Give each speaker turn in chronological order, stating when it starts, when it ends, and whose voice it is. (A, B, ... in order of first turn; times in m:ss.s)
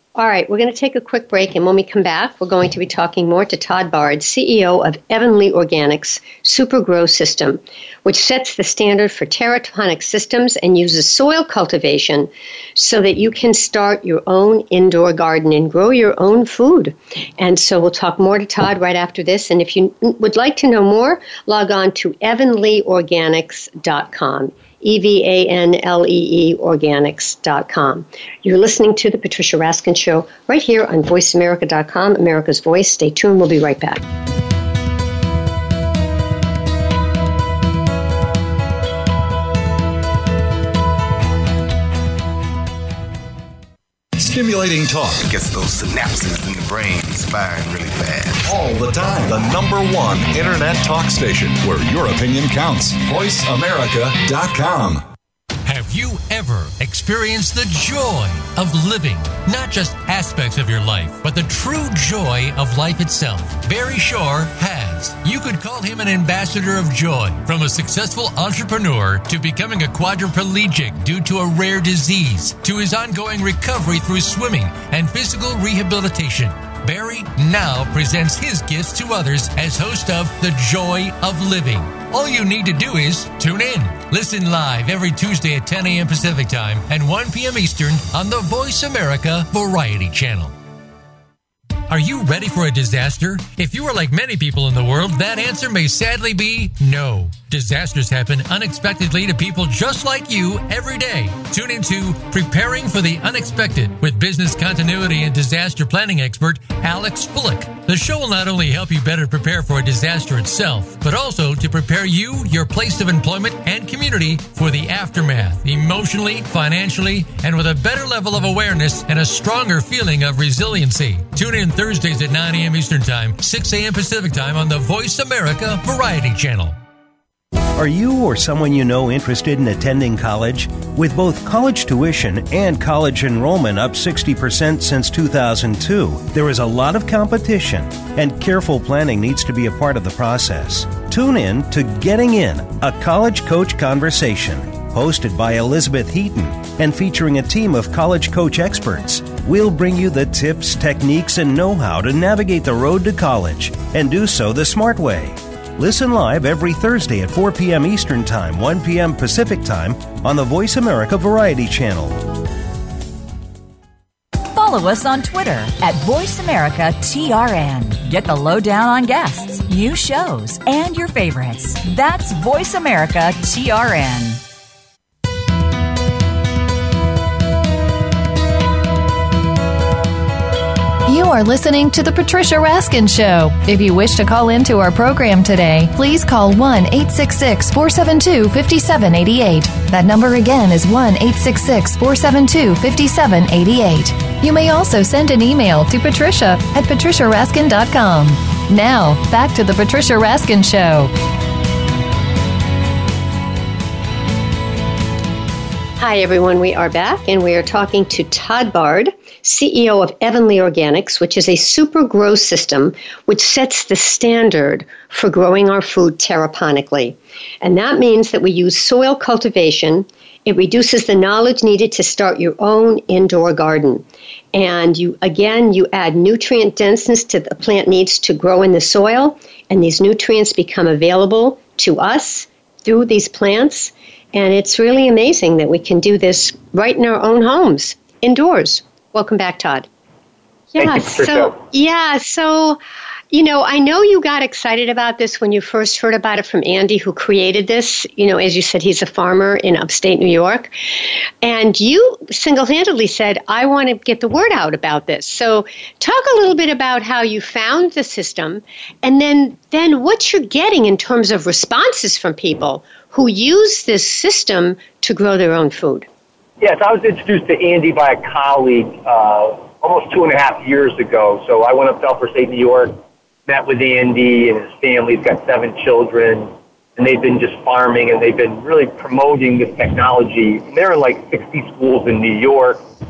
0:00.2-0:34.0 A
0:44.2-0:45.2 B
0:45.2-0:48.4 C
0:48.4-0:55.0 B
0:55.6-1:30.5 D
1:31.9-2:06.8 D
2:07.8-2:42.3 E
2:44.5-2:54.4 F
3:01.1-3:21.1 G
3:26.0-3:59.9 A
4:00.7-4:02.8 A
4:00.8-4:01.6 H
4:03.3-4:10.7 A
4:11.4-4:26.0 A
4:26.6-4:42.8 H